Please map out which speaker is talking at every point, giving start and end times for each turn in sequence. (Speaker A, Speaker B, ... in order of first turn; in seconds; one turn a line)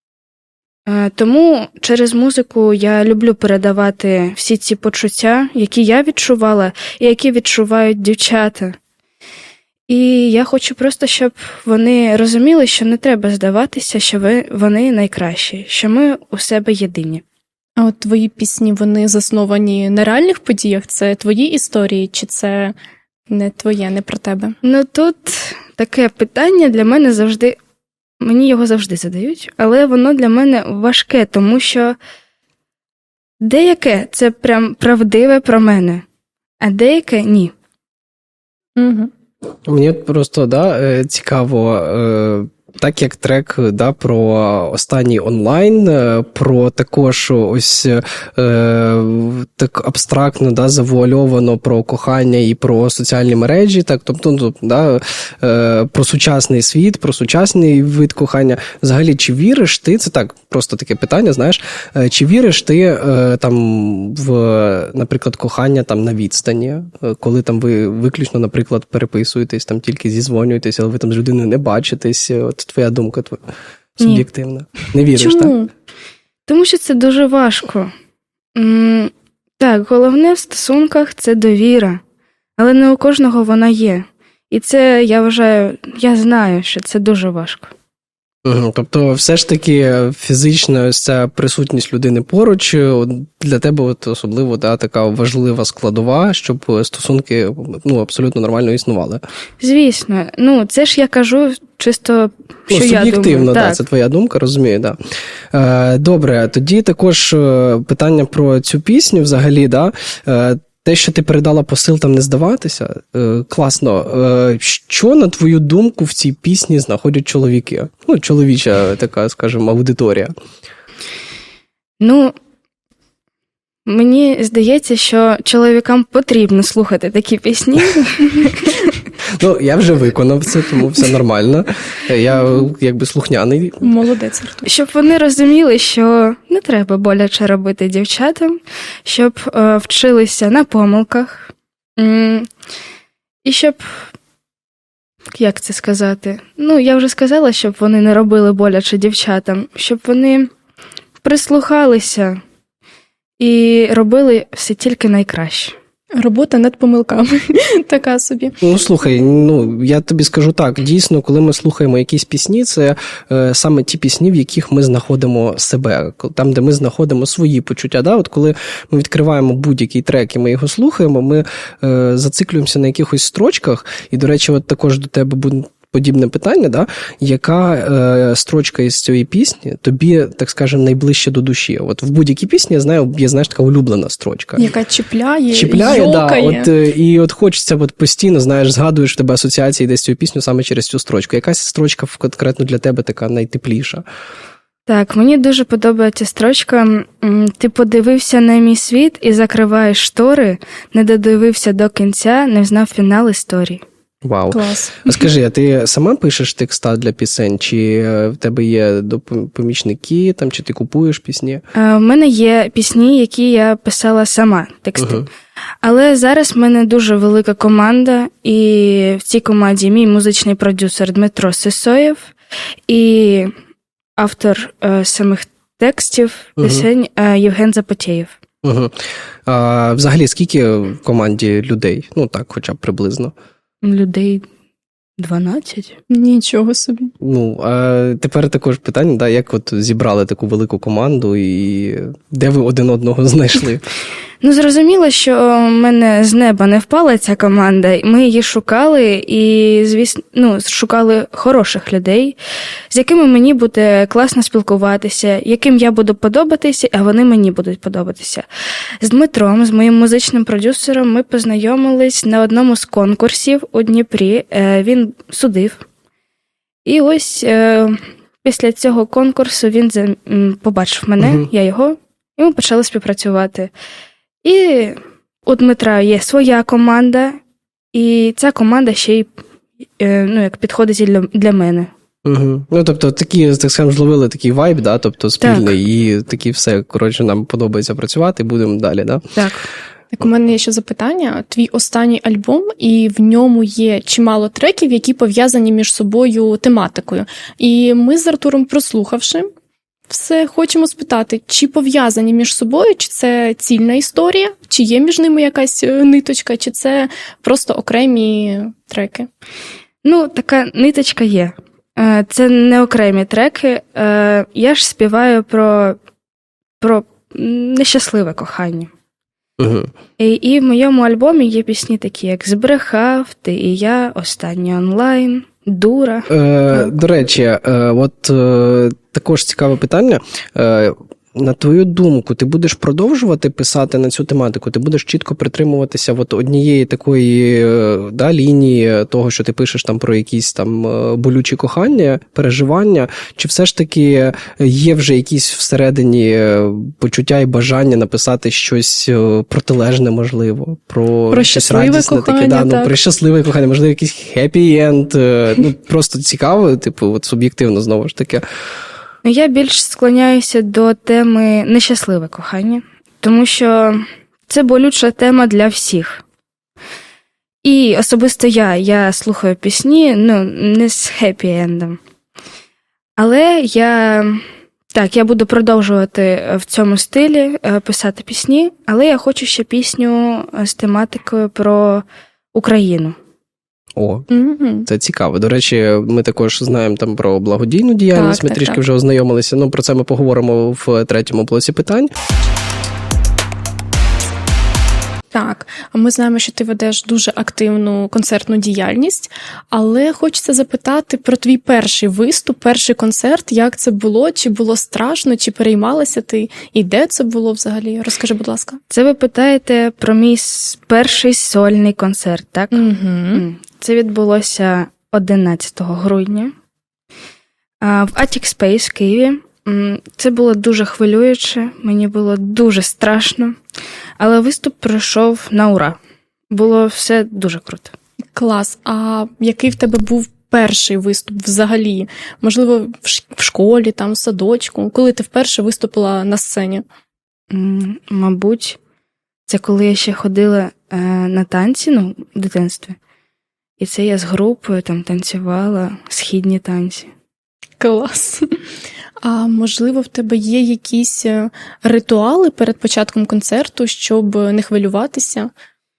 Speaker A: 0.9-8.8
Speaker A: 9.9-17.2
Speaker B: 17.8-22.8
Speaker B: 23.3-24.6
Speaker A: 24.6-27.6
Speaker A: 28.2-32.0
Speaker A: 33.4-36.0
Speaker A: 36.6-37.5
Speaker B: 38.8-39.1
Speaker C: 39.7-73.4
Speaker C: 74.0-75.5
Speaker A: 74.0-74.2
Speaker B: 75.2-75.7
Speaker A: 76.5-77.9
Speaker A: 78.5-82.0
Speaker A: 82.6-87.7
Speaker C: 88.5-99.2
Speaker A: 99.6-103.8
Speaker C: 102.7-105.0
Speaker C: 105.5-120.3
Speaker A: 122.0-122.4
Speaker A: 123.9-128.8
Speaker C: 129.3-133.9
Speaker B: 133.8-134.7
Speaker A: 134.7-142.5
Speaker A: 143.4-144.0
Speaker A: 145.3-150.5
Speaker A: 151.2-152.4
Speaker A: 153.4-155.8
Speaker B: 156.2-158.6
Speaker C: 158.6-184.7
Speaker B: 184.6-186.7
Speaker C: 185.5-194.0
Speaker A: 194.9-203.8
Speaker C: 204.2-211.6
Speaker B: 204.5-205.2
Speaker A: 211.8-215.3
Speaker C: 215.0-215.3
Speaker A: 215.8-222.3
Speaker A: 222.9-223.5
Speaker A: 224.2-228.4
Speaker C: 226.6-226.9
Speaker C: 228.6-228.9
Speaker C: 229.5-233.3
Speaker A: 233.8-234.5
Speaker A: 235.2-236.0
Speaker B: 236.1-237.1
Speaker C: 237.2-243.8
Speaker A: 244.4-252.4
Speaker A: 252.9-258.5
Speaker A: 259.0-265.9
Speaker A: 266.9-273.7
Speaker A: 274.4-277.4
Speaker A: 277.9-279.3
Speaker A: 280.0-281.9
Speaker C: 282.2-289.4
Speaker A: 285.4-285.8
Speaker A: 289.4-289.7
Speaker B: 290.1-299.5
Speaker B: 300.1-309.3
Speaker A: 310.0-316.0
Speaker A: 316.8-318.9
Speaker C: 319.6-319.9
Speaker A: 320.2-326.9
Speaker C: 326.3-358.4
Speaker B: 351.3-352.9
Speaker A: 359.2-366.2
Speaker A: 367.6-372.0
Speaker A: 373.2-383.2
Speaker C: 384.0-384.3
Speaker B: 384.3-384.9
Speaker C: 384.9-392.1
Speaker B: 388.1-388.8
Speaker B: 395.3-408.8
Speaker A: 408.9-416.5
Speaker B: 412.7-413.4
Speaker A: 417.8-423.6
Speaker A: 424.2-426.0
Speaker A: 426.5-427.9
Speaker B: 428.3-436.8
Speaker A: 437.5-438.8
Speaker A: 439.5-443.0
Speaker A: 443.8-447.1
Speaker B: 447.8-448.6
Speaker B: 449.2-455.5